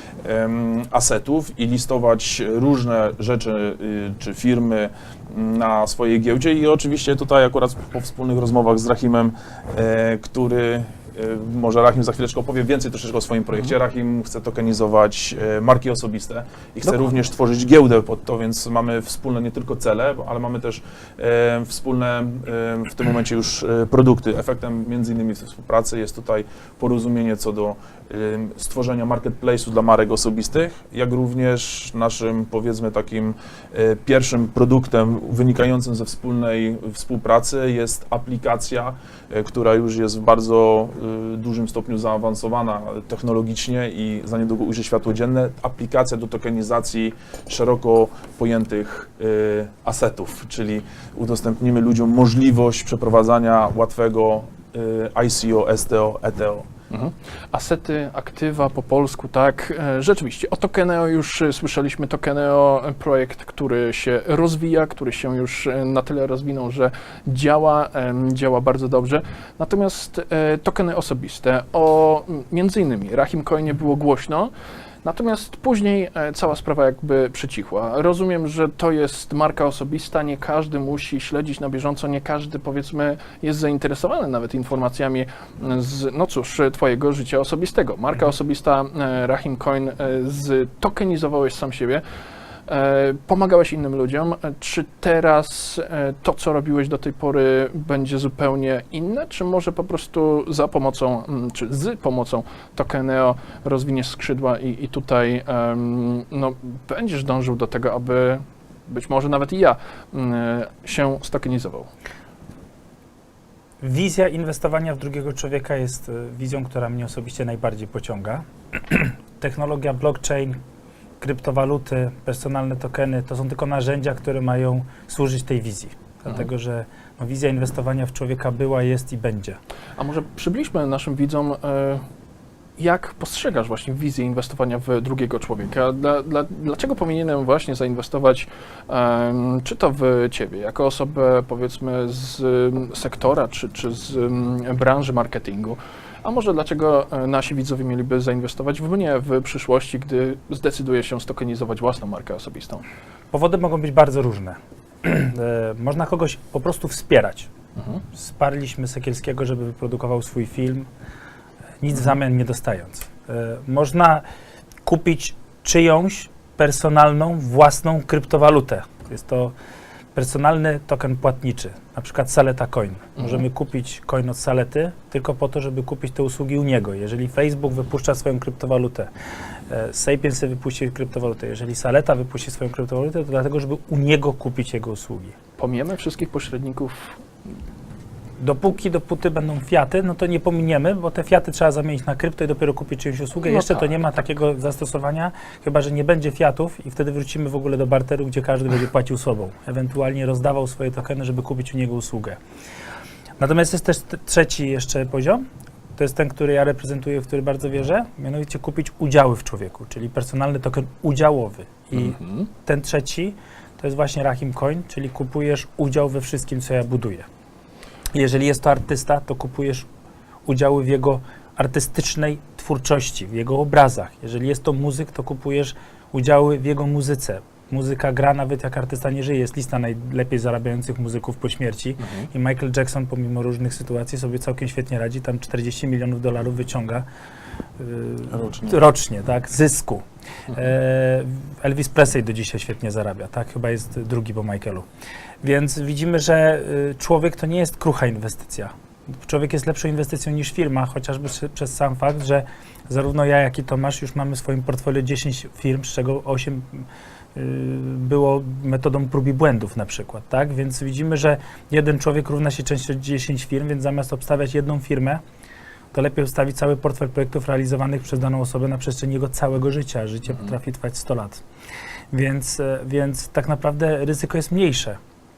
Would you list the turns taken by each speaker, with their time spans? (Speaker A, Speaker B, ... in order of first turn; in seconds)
Speaker A: 0.2-56.7, 238.3-238.8
Speaker B: 56.9-74.5, 75.0-92.0, 92.7-111.9, 130.0-132.0, 132.8-152.8, 157.8-158.0, 173.2-173.4, 185.6-187.2, 193.4-194.0, 211.9-212.5, 232.0-232.3
Speaker C: 113.8-120.6, 121.2-129.6, 153.3-157.5, 158.1-160.9, 161.8-164.2, 164.8-169.5, 170.1-179.1, 179.7-185.3, 188.4-202.4, 203.4-205.4, 206.0-217.3, 218.1-219.9, 220.4-237.0, 237.8-244.8, 245.4-265.2, 265.9-271.4, 272.1-275.0